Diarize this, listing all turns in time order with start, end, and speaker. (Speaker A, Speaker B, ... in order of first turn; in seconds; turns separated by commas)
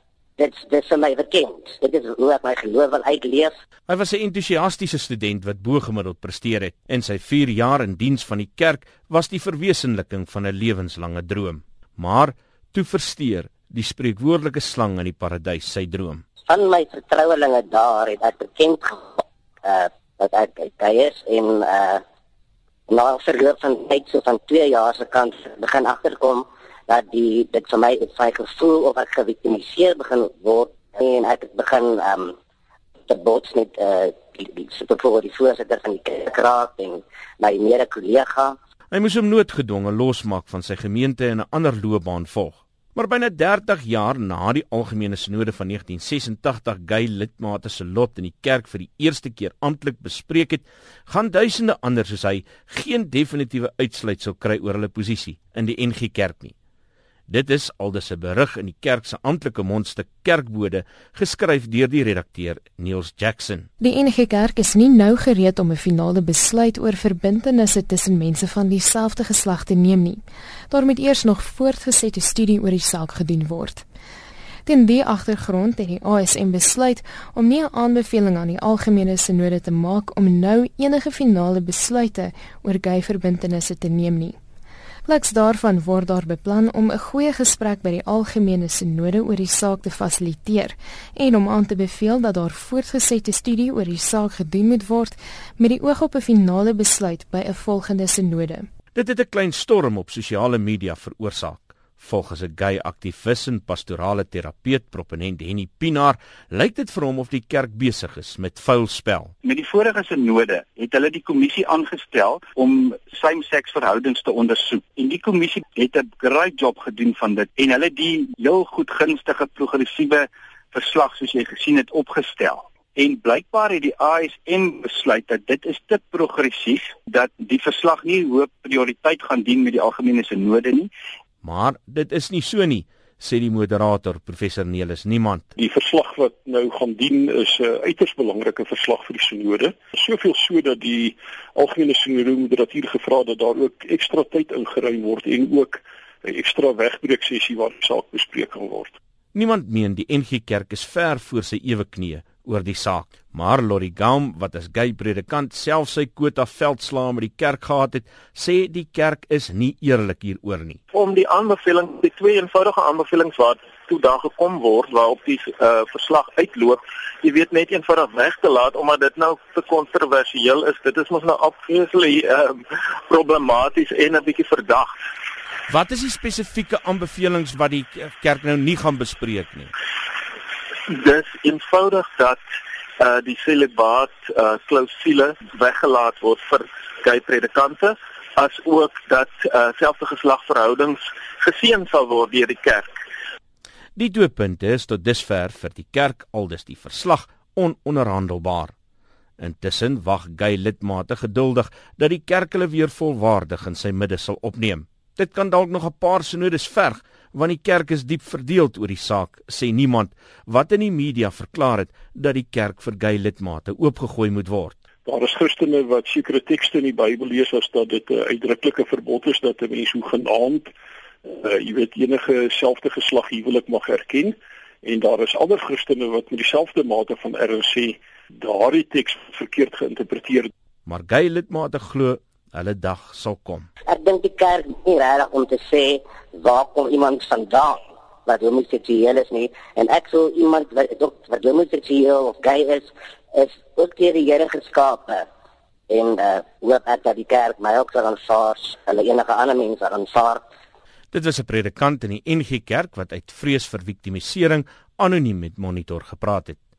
Speaker A: 0.4-3.5, Speaker B: 3.9-16.2, Speaker A: 16.5-22.0, Speaker A: 22.9-32.3, Speaker A: 33.1-38.5, Speaker B: 38.9-56.5, Speaker B: 57.3-63.7, Speaker C: 63.8-73.8, Speaker C: 74.7-84.3, Speaker C: 85.0-98.7, Speaker B: 98.9-109.3, Speaker D: 109.4-130.9, Speaker B: 131.4-135.5, Speaker E: 135.6-148.9, Speaker B: 149.3-160.8, Speaker F: 160.9-175.0, Speaker B: 175.7-179.7, Speaker F: 180.9-182.4, Speaker F: 183.0-192.9, Speaker B: 193.9-198.7, Speaker B: 199.4-214.8, Speaker E: 215.1-220.7, Speaker E: 221.2-230.5, Speaker B: 230.8-233.7, Speaker A: 233.9-245.2, Speaker A: 245.9-250.4, Speaker B: 251.1-256.6